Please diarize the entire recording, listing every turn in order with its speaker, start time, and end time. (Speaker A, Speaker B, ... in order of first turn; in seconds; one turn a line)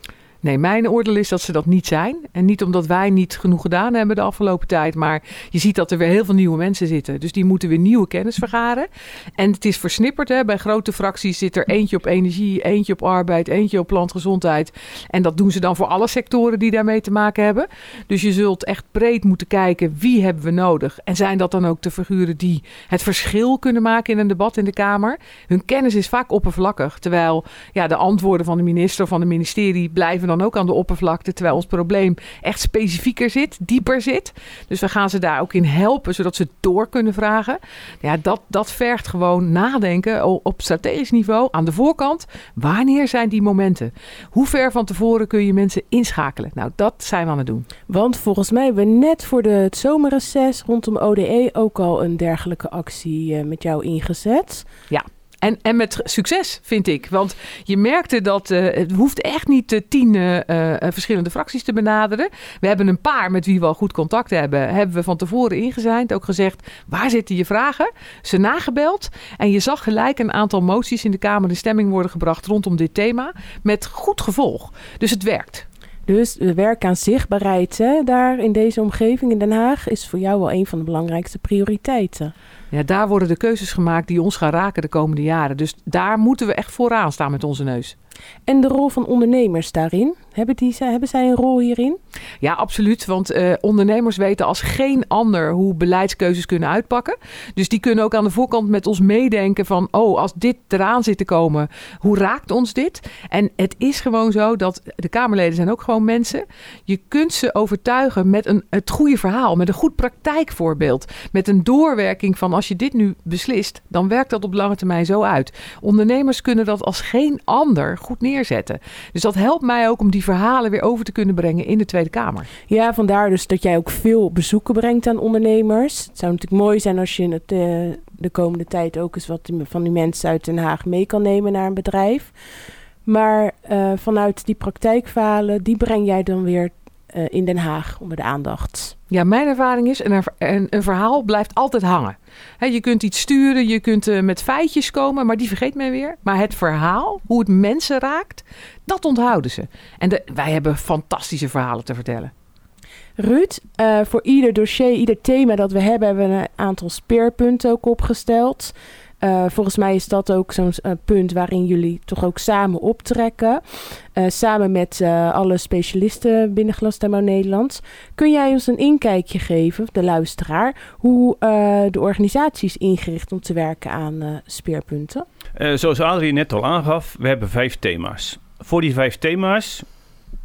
Speaker A: 0.4-47.6
Speaker B: 47.9-54.7
Speaker A: 54.9-75.7
Speaker B: 76.0-82.3
Speaker A: 82.7-87.9
Speaker B: 88.5-92.0
Speaker A: 92.4-122.5
Speaker B: 122.7-132.3
Speaker B: 133.0-138.9
Speaker A: 139.1-152.3
Speaker B: 153.2-175.2
Speaker C: 175.6-179.8